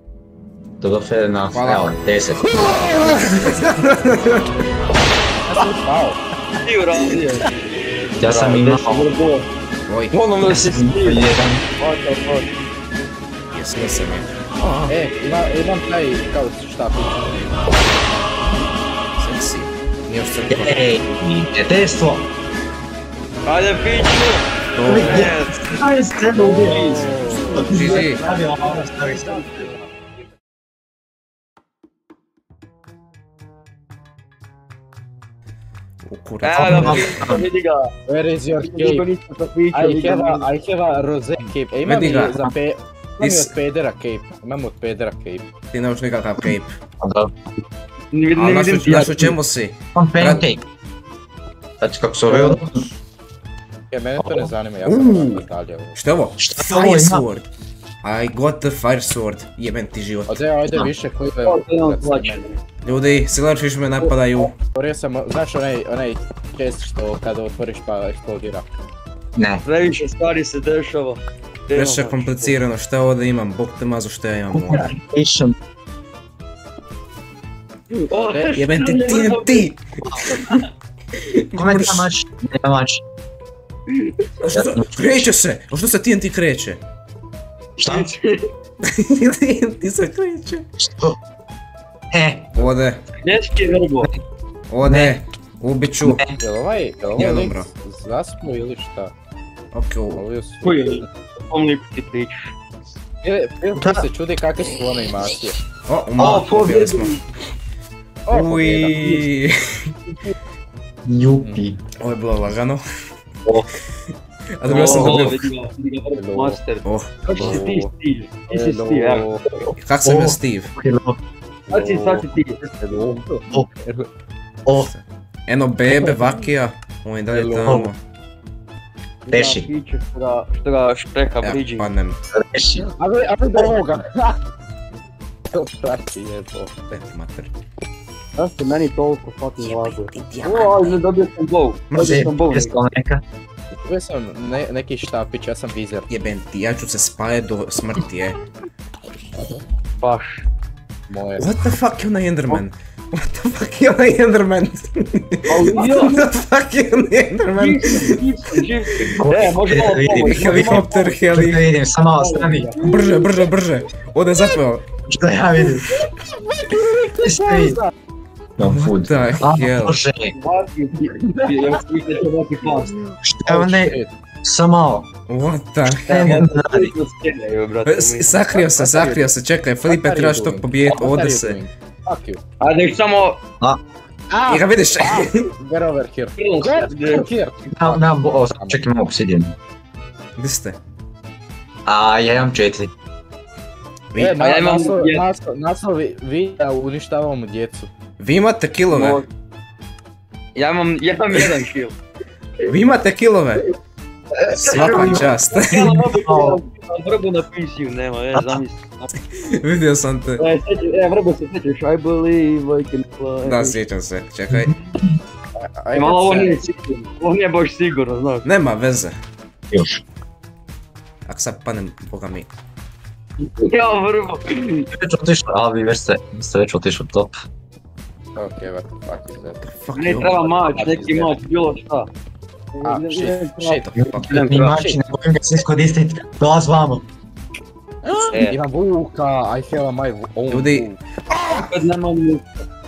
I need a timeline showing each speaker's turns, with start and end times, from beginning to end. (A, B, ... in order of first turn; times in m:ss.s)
0:00.8-0:02.4 A
0:01.5-0:01.9 B
0:02.4-0:04.4 B
0:05.4-0:06.2 C
0:06.6-0:07.5 D
0:08.2-0:09.1 A
0:08.2-0:09.5 D
0:09.9-0:10.1 B
0:10.1-0:12.5 D
0:10.4-0:11.6 A
0:13.5-0:14.9 B
0:14.9-0:17.7 C
0:19.2-0:20.8 B
0:20.5-0:22.3 A
0:23.4-0:25.5 D
0:24.8-0:25.3 B
0:24.8-0:29.7 A
0:26.4-0:29.8 C
0:26.4-0:29.7 D
0:27.6-0:28.2 B
0:36.0-0:37.1 B
0:36.4-0:37.9 D
0:36.5-0:37.4 A
0:38.1-0:39.0 C
0:38.6-0:40.5 D
0:39.7-0:45.4 C
0:41.8-0:42.5 B
0:43.2-0:43.5 B
0:45.7-0:46.7 B
0:47.0-0:47.3 A
0:48.1-0:49.4 D
0:48.4-0:50.5 B
0:49.9-0:50.6 A
0:51.8-0:52.8 A
0:52.3-0:52.6 C
0:53.9-0:56.0 C
0:54.2-0:54.5 A
0:54.8-0:55.4 B
0:56.0-0:57.4 B
0:56.4-0:57.2 A
0:58.0-1:00.4 B
1:00.3-1:02.4 C
1:01.4-1:02.6 D
1:02.8-1:04.5 B
1:04.0-1:04.5 D
1:04.7-1:08.6 C
1:09.4-1:09.6 A
1:09.6-1:12.6 D
1:11.7-1:14.8 B
1:14.5-1:15.5 A
1:17.9-1:20.6 D
1:18.1-1:18.6 C
1:18.5-1:20.6 B
1:21.2-1:22.1 B
1:21.6-1:23.0 A
1:23.9-1:24.2 D
1:24.4-1:26.8 B
1:24.5-1:25.3 A
1:27.8-1:28.1 A
1:27.8-1:28.4 D
1:28.9-1:30.6 B
1:30.8-1:31.2 A
1:32.1-1:32.6 A
1:32.6-1:33.0 B
1:33.2-1:34.1 D
1:34.7-1:36.2 B
1:34.8-1:35.2 A
1:36.0-1:36.4 A
1:36.4-1:39.1 C
1:37.2-1:37.7 B
1:39.7-1:40.2 B
1:40.1-1:41.0 C
1:40.6-1:42.5 D
1:43.2-1:45.6 C
1:43.8-1:44.0 A
1:45.9-1:47.2 B
1:46.2-1:46.4 A
1:46.2-1:47.2 D
1:48.3-1:49.2 C
1:48.3-1:49.9 B
1:51.0-1:51.8 A
1:52.0-1:52.8 B
1:54.6-1:55.5 B
1:54.6-1:59.2 D
1:54.7-1:55.2 C
1:56.2-1:56.6 C
1:56.8-1:57.6 B
1:57.2-1:57.9 C
1:58.5-1:59.4 C
1:59.8-2:00.7 B
2:00.0-2:01.2 A
2:01.7-2:03.0 D
2:01.7-2:04.1 C
2:04.7-2:08.0 B
2:05.9-2:06.4 C
2:07.3-2:07.8 C
2:07.6-2:07.9 A
2:09.3-2:11.9 D
2:09.3-2:09.7 A
2:11.4-2:12.2 B
2:12.3-2:12.9 A
2:12.8-2:14.4 C
2:15.5-2:16.7 C
2:16.9-2:17.5 B
2:18.4-2:22.8 D
2:19.6-2:21.0 B
2:21.9-2:22.2 B
2:22.0-2:23.2 A
2:23.8-2:26.1 C
2:26.1-2:28.4 B
2:30.0-2:30.4 D
2:31.1-2:31.5 C
2:31.4-2:38.1 B
2:35.5-2:36.3 D
2:37.6-2:41.2 D
2:39.2-2:42.7 A
2:40.2-2:41.6 B
2:42.1-2:42.8 D
2:42.8-2:44.8 B
2:45.0-2:46.0 A
2:45.9-2:47.9 C
2:47.2-2:47.8 A
2:48.6-2:50.3 A
2:48.6-2:50.0 B
2:50.3-2:52.9 D
2:51.2-2:51.8 C
2:53.2-2:55.1 A
2:53.4-2:54.1 C
2:55.3-2:56.4 B
2:55.9-2:56.9 A
2:56.1-2:58.3 D
2:57.8-3:01.6 B
2:58.5-2:59.3 C
2:59.8-3:02.4 C
3:02.6-3:03.4 D
3:04.3-3:08.8 C
3:04.5-3:05.5 B
3:06.4-3:07.3 D
3:07.7-3:09.6 A
3:10.4-3:10.8 B
3:11.8-3:12.9 A
3:14.2-3:17.9 C
3:14.4-3:15.2 D
3:18.2-3:19.2 B
3:18.9-3:19.2 D
3:20.5-3:22.0 D
3:22.7-3:23.7 B
3:24.5-3:29.1 D
3:24.6-3:26.0 B
3:24.7-3:25.3 A
3:25.8-3:26.6 A
3:28.3-3:28.6 A
3:29.4-3:30.4 B
3:30.4-3:33.8 D
3:33.4-3:34.7 B
3:35.6-3:36.6 C
3:35.9-3:38.4 D
3:38.4-3:39.2 B
3:39.7-3:40.0 A
3:41.3-3:42.5 B
3:43.5-3:44.9 D
3:44.9-3:47.3 A
3:48.4-3:49.6 C
3:49.6-3:50.5 B
3:49.9-3:52.1 D
3:50.6-3:51.3 C
3:52.7-3:53.7 D
3:52.8-3:53.9 C
3:53.6-3:54.5 B
3:54.0-3:57.0 A
3:54.3-3:54.8 D
3:54.6-3:55.0 C
3:58.0-4:01.0 C
3:58.3-3:58.6 D
4:00.5-4:01.7 B
4:01.5-4:02.5 D